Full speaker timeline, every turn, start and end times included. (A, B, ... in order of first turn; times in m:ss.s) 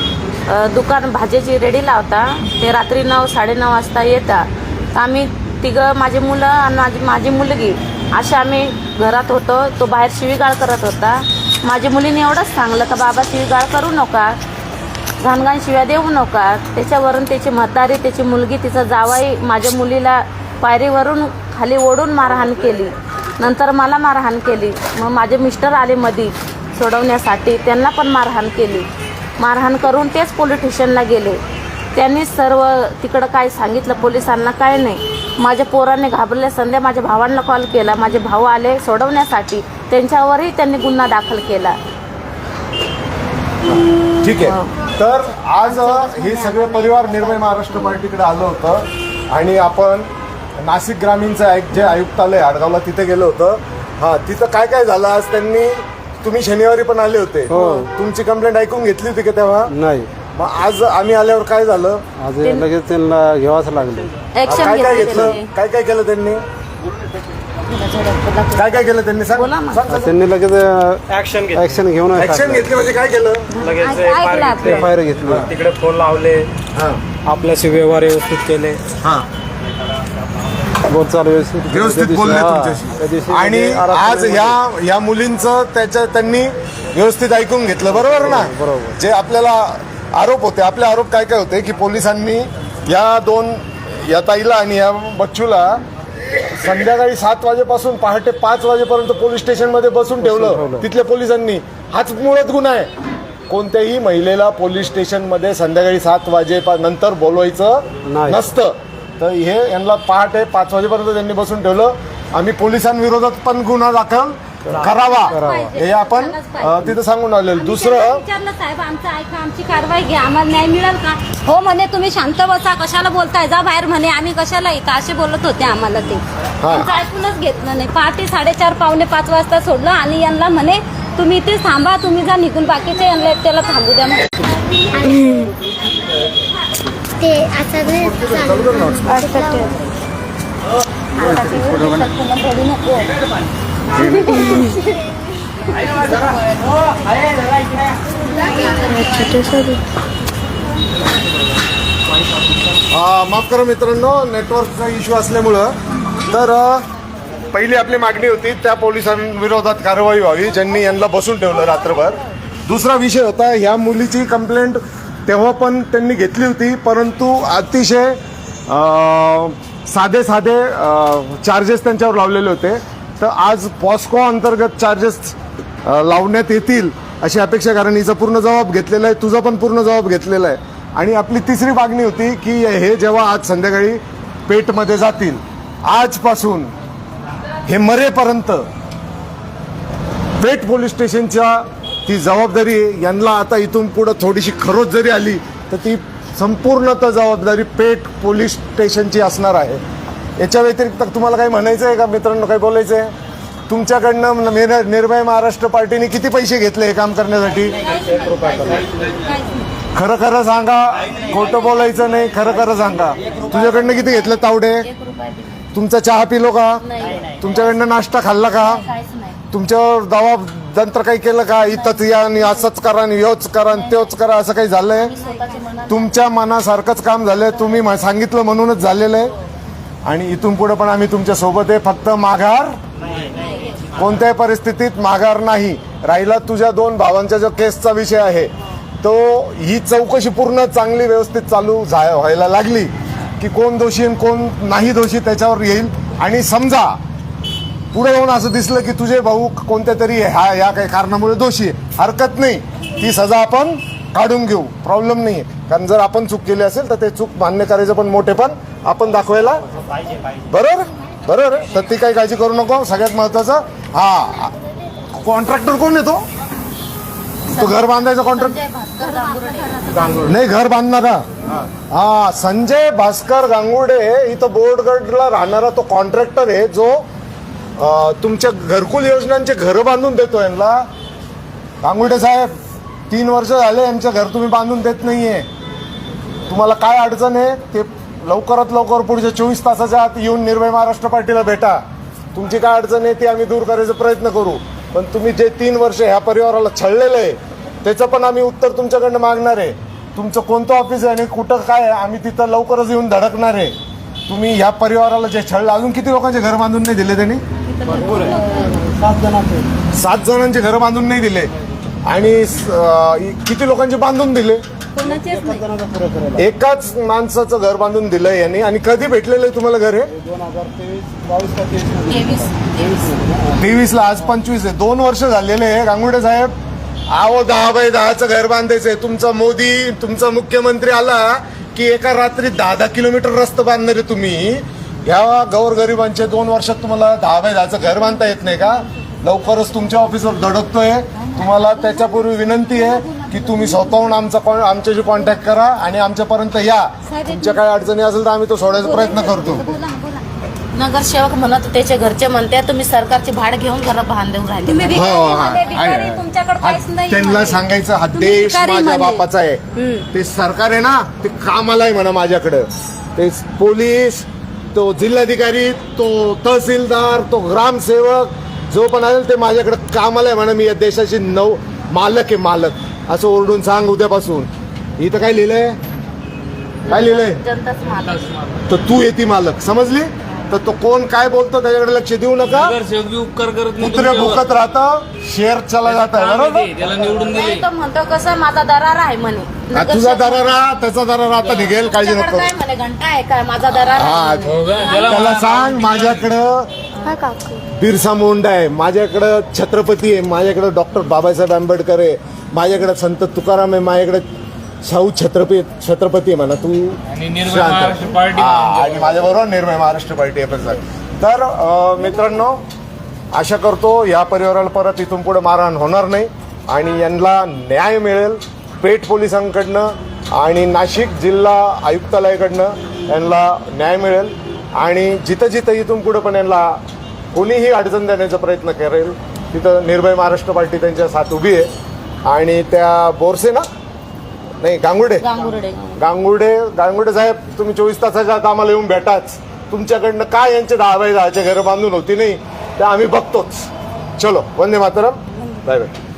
0:00.5-0:14.4 A
0:15.2-0:28.9 A
0:29.4-0:31.4 A
0:32.0-0:41.8 A
0:44.2-0:59.7 B
0:44.4-0:44.7 A
0:45.7-0:47.8 C
0:57.5-0:57.9 D
0:59.7-1:00.1 D
1:00.3-1:02.0 B
1:02.2-1:04.2 D
1:02.4-1:02.7 A
1:04.3-1:05.5 A
1:04.4-1:06.4 B
1:07.7-1:09.8 A
1:08.5-1:10.2 B
1:09.9-1:12.7 D
1:11.1-1:12.5 E
1:12.2-1:13.5 B
1:13.5-1:16.5 E
1:13.8-1:14.9 C
1:14.6-1:15.5 D
1:16.7-1:17.0 B
1:17.2-1:18.7 D
1:17.4-1:18.8 E
1:19.0-1:19.3 B
1:20.8-1:24.6 D
1:21.7-1:42.9 B
1:27.9-1:29.0 D
1:40.2-1:40.9 D
1:43.5-1:58.2 B
1:48.1-1:48.5 D
1:54.6-1:55.8 D
1:54.7-1:55.0 E
1:54.8-1:56.9 C
1:57.5-2:14.5 C
2:06.6-2:06.9 B
2:15.0-2:15.5 F
2:17.2-2:19.8 F
2:17.9-2:19.4 B
2:21.2-2:23.1 C
2:21.2-2:21.7 F
2:21.6-2:21.9 B
2:23.9-2:24.4 B
2:24.0-2:25.0 C
2:24.3-2:24.7 F
2:25.8-2:26.1 C
2:28.4-2:29.8 F
2:32.9-2:36.8 B
2:37.5-3:06.7 B
3:07.7-3:08.7 B
3:10.4-3:19.8 B
3:20.4-3:23.1 B
3:23.7-3:27.8 B
3:27.8-3:29.7 C
3:28.3-3:28.8 D
3:29.9-3:34.9 B
3:34.8-3:35.6 A
3:35.7-3:38.8 B
3:36.8-3:37.8 A
3:38.5-3:39.4 A
3:39.5-3:45.2 B
3:41.6-3:42.6 A
3:45.0-3:46.1 A
3:45.9-3:49.3 B
3:50.0-3:52.8 B
3:53.9-4:07.0 B
4:07.9-4:19.6 B
4:20.5-4:24.6 B
4:25.1-4:26.2 B
4:27.5-4:30.3 A
4:27.5-4:28.6 B
4:29.0-4:30.0 C
4:29.9-4:30.3 D
4:30.3-4:31.2 B
4:31.9-4:37.1 B
4:37.8-4:40.9 B
4:41.8-4:42.6 B
4:43.1-4:45.5 B
4:46.5-5:03.8 B
5:04.3-5:07.4 B
5:07.7-5:08.8 C
5:07.9-5:09.7 D
5:09.9-5:11.5 B
5:12.1-5:14.6 B
5:14.9-5:15.7 C
5:15.0-5:16.5 D
5:16.4-5:20.1 B
5:20.1-5:23.9 D
5:22.1-5:23.0 A
5:23.6-5:26.5 B
5:27.1-5:49.7 B
5:41.4-5:44.1 C
5:47.1-5:47.7 C
5:48.6-5:50.2 C
5:50.7-5:55.1 A
5:54.7-5:59.2 C
5:54.9-6:15.8 B
5:59.8-6:00.1 C
6:16.9-6:17.4 B
6:16.9-6:18.3 A
6:17.8-6:18.6 G
6:18.7-6:22.8 B
6:22.4-6:24.5 G
6:23.8-6:26.8 B
6:25.8-6:27.7 G
6:27.1-6:30.5 A
6:29.7-6:32.5 B
6:31.4-6:31.8 G
6:31.7-6:35.2 A
6:33.8-6:36.7 B
6:34.4-6:36.3 G
6:37.0-6:37.6 F
6:37.7-6:44.2 B
6:44.8-6:52.6 B
6:47.1-6:49.4 G
6:53.3-7:06.8 B
7:07.3-7:11.7 B
7:12.2-7:13.7 B
7:14.6-7:15.3 B
7:15.2-7:16.0 A
7:16.0-7:25.9 B